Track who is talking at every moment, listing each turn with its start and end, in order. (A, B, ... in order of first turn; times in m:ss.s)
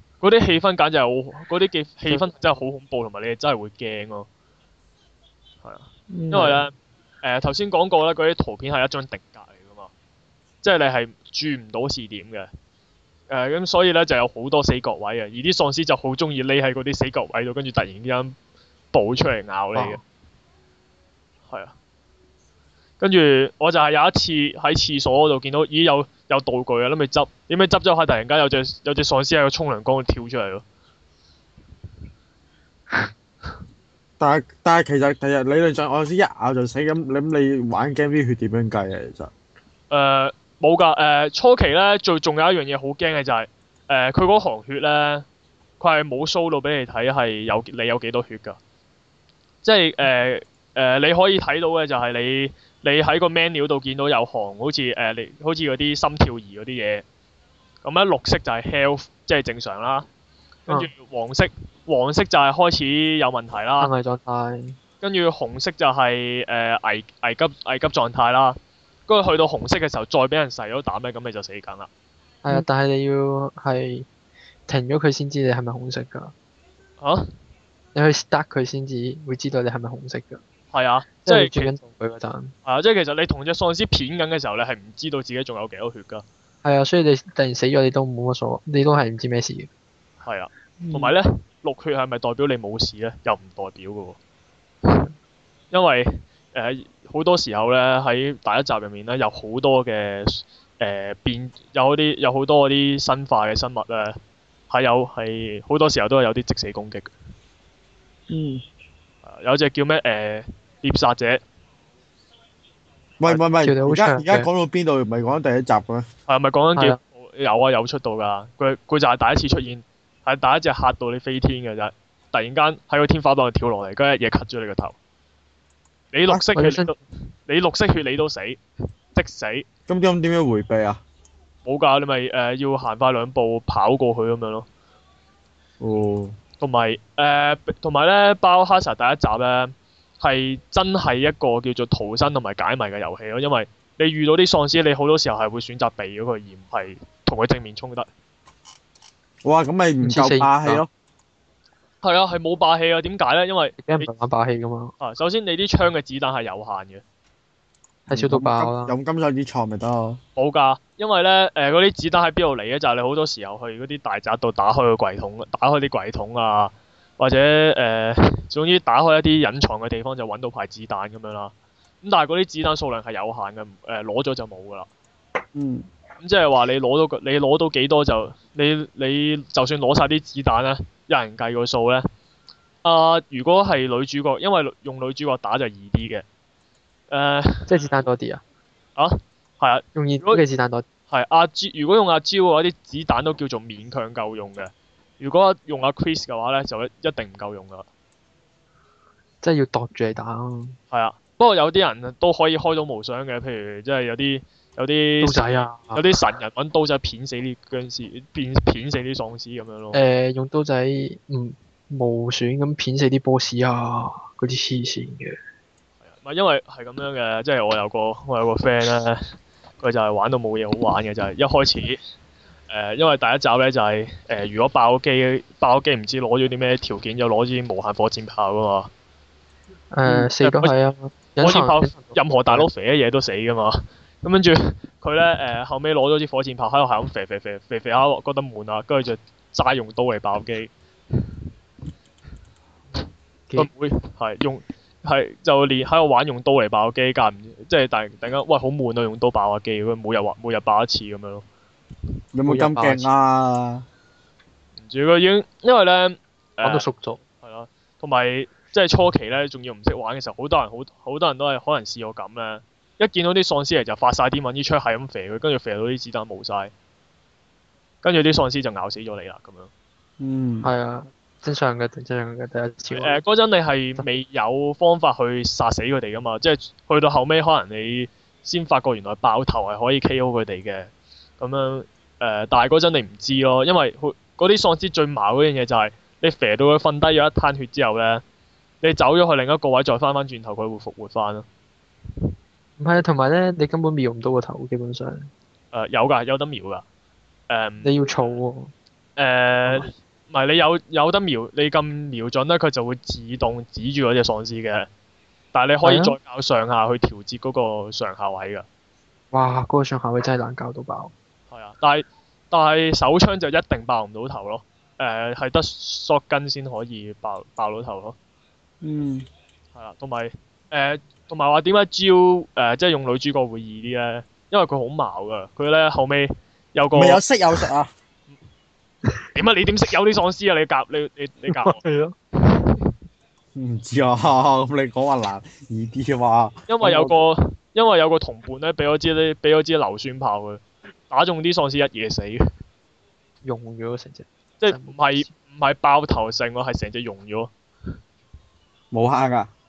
0:00.2-0:04.3 A
0:02.1-0:02.3 B
0:05.6-0:09.9 A
0:06.3-0:06.6 B
0:10.6-0:12.5 A
0:13.3-0:18.4 A
0:18.9-0:20.0 A
0:23.0-0:30.6 A
0:34.2-0:39.3 C
0:39.9-0:45.3 A
0:45.8-0:48.6 A
0:49.6-0:57.0 A
0:57.8-1:00.1 A
1:00.7-1:03.9 A
1:03.8-1:04.8 B
1:05.0-1:11.9 A
1:12.4-1:14.1 B
1:14.7-1:16.3 B
1:17.0-1:17.3 A
1:18.0-1:20.4 B
1:20.7-1:21.7 A
1:21.3-1:22.5 B
1:22.6-1:26.2 A
1:26.6-1:29.7 B
1:30.2-1:34.2 A
1:35.7-1:44.2 A
1:44.7-1:47.1 A
1:48.3-1:48.6 C
1:49.2-1:51.4 A
1:53.2-1:56.1 C
1:53.3-1:54.5 B
1:56.3-2:05.0 A
2:06.1-2:08.6 A
2:06.5-2:06.9 B
2:09.1-2:09.7 A
2:09.9-2:11.0 C
2:11.6-2:14.7 A
2:15.8-2:16.4 C
2:16.6-2:28.1 A
2:29.4-2:30.9 C
2:30.0-2:30.8 B
2:32.0-2:34.1 A
2:33.8-2:34.9 B
2:35.0-2:37.0 A
2:38.1-2:39.0 B
2:38.1-2:40.2 C
2:40.4-2:54.9 A
2:55.6-2:55.9 C
2:56.2-3:02.1 A
3:02.8-3:06.2 A
3:07.1-3:08.0 A
3:07.7-3:08.4 B
3:09.0-3:10.4 A
3:10.0-3:10.8 B
3:11.1-3:17.9 A
3:19.4-3:20.8 B
3:20.9-3:30.0 A
3:25.2-3:26.0 B
3:29.9-3:35.4 B
3:36.0-3:42.0 A
3:42.7-3:48.9 A
3:49.9-3:52.6 B
3:50.0-3:50.7 A
3:51.4-4:00.7 A
4:03.6-4:11.4 A
4:12.3-4:13.8 C
4:12.5-4:13.1 B
4:14.8-4:16.9 A
4:16.6-4:17.2 B
4:17.4-4:26.7 A
4:28.0-4:29.7 A
4:30.2-4:30.7 C
4:30.6-4:33.2 B
4:32.9-4:48.2 A
4:48.8-4:51.5 A
4:52.8-4:55.3 B
4:55.7-4:56.8 A
4:57.5-4:57.9 A
4:57.8-4:58.7 B
4:59.2-5:04.9 A
5:05.5-5:08.7 A
5:05.8-5:06.2 B
5:09.3-5:11.1 B
5:11.5-5:18.2 A
5:18.8-5:19.3 C
5:19.8-5:27.2 A
5:27.0-5:27.9 C
5:29.3-5:31.8 A
5:31.5-5:32.2 B
5:33.6-5:37.1 C
5:36.7-5:42.4 A
5:43.4-5:45.3 B
5:44.6-5:47.5 A
5:48.9-5:49.5 C